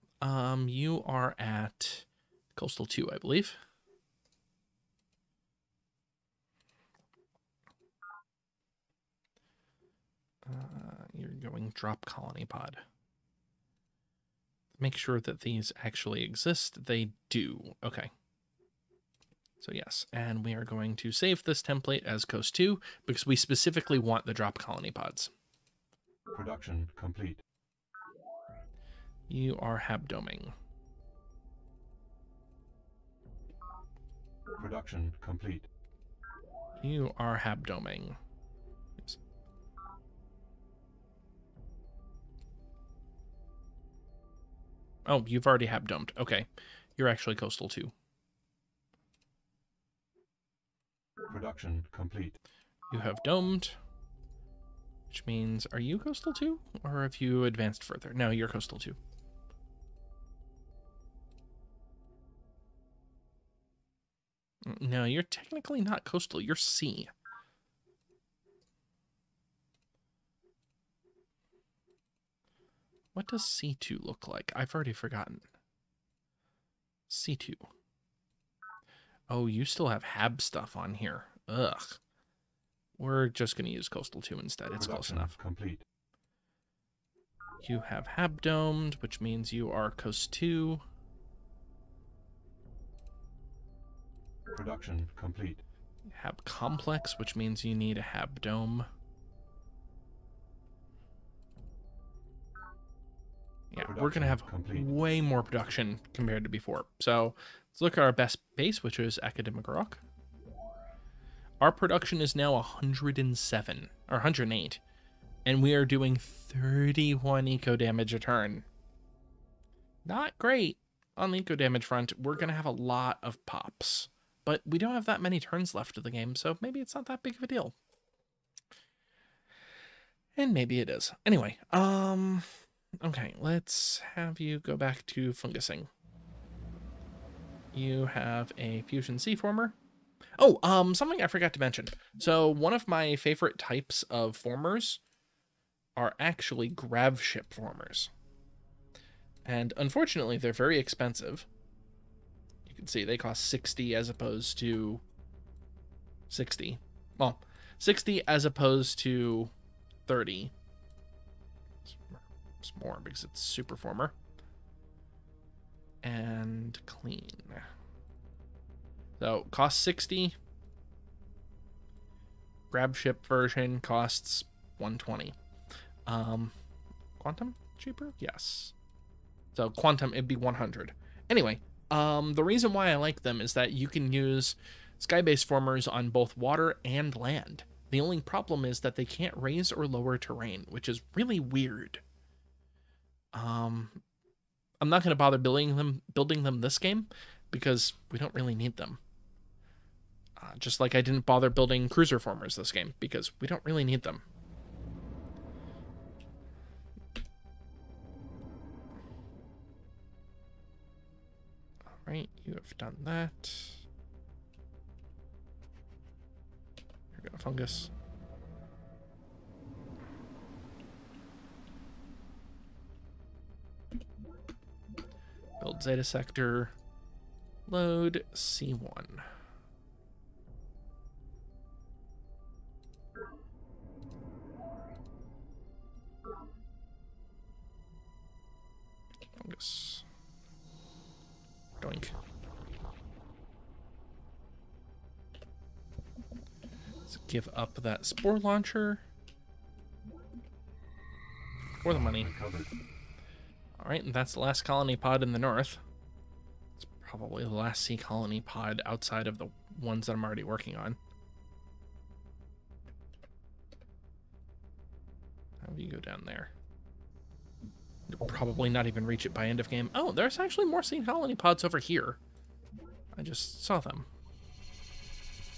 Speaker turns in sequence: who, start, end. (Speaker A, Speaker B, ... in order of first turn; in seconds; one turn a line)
Speaker A: 0.2-3.6
Speaker A: 10.4-12.8
Speaker A: 14.8-18.1
Speaker A: 19.6-25.3
Speaker B: 26.3-27.4
Speaker A: 29.3-30.6
Speaker B: 34.6-35.7
Speaker A: 36.8-38.2
Speaker A: 45.1-47.9
Speaker B: 51.3-52.4
Speaker A: 52.9-53.8
Speaker A: 55.1-59.0
Speaker A: 64.7-67.1
Speaker A: 73.1-75.5
Speaker A: 77.1-77.7
Speaker A: 79.3-82.0
Speaker A: 83.0-85.4
Speaker B: 84.7-85.8
Speaker A: 87.6-90.8
Speaker B: 94.5-95.6
Speaker A: 96.1-98.9
Speaker A: 103.7-110.0
Speaker B: 103.8-105.0
Speaker A: 111.6-114.8
Speaker A: 115.5-118.6
Speaker A: 120.1-127.8
Speaker A: 130.4-132.5
Speaker A: 133.0-135.9
Speaker A: 137.7-139.8
Speaker A: 140.4-145.0
Speaker A: 145.9-148.1
Speaker A: 149.4-151.5
Speaker A: 152.7-155.0
Speaker A: 156.3-159.5
Speaker A: 160.1-160.5
Speaker A: 161.9-164.1
Speaker A: 166.0-167.7
Speaker A: 169.2-170.3
Speaker A: 172.7-175.4
Speaker A: 176.1-176.5
Speaker A: 177.2-178.7
Speaker A: 179.5-192.0
Speaker A: 193.3-194.0
Speaker A: 194.8-199.0
Speaker A: 200.4-204.2
Speaker A: 211.9-213.8
Speaker A: 217.1-217.9
Speaker A: 225.6-226.7
Speaker A: 227.7-229.3
Speaker A: 239.4-240.1
Speaker A: 241.8-242.1
Speaker A: 247.1-249.0
Speaker A: 251.8-252.3
Speaker B: 251.9-252.7
Speaker A: 253.8-255.8
Speaker A: 256.8-261.0
Speaker A: 265.6-266.5
Speaker A: 268.1-272.2
Speaker A: 273.1-274.1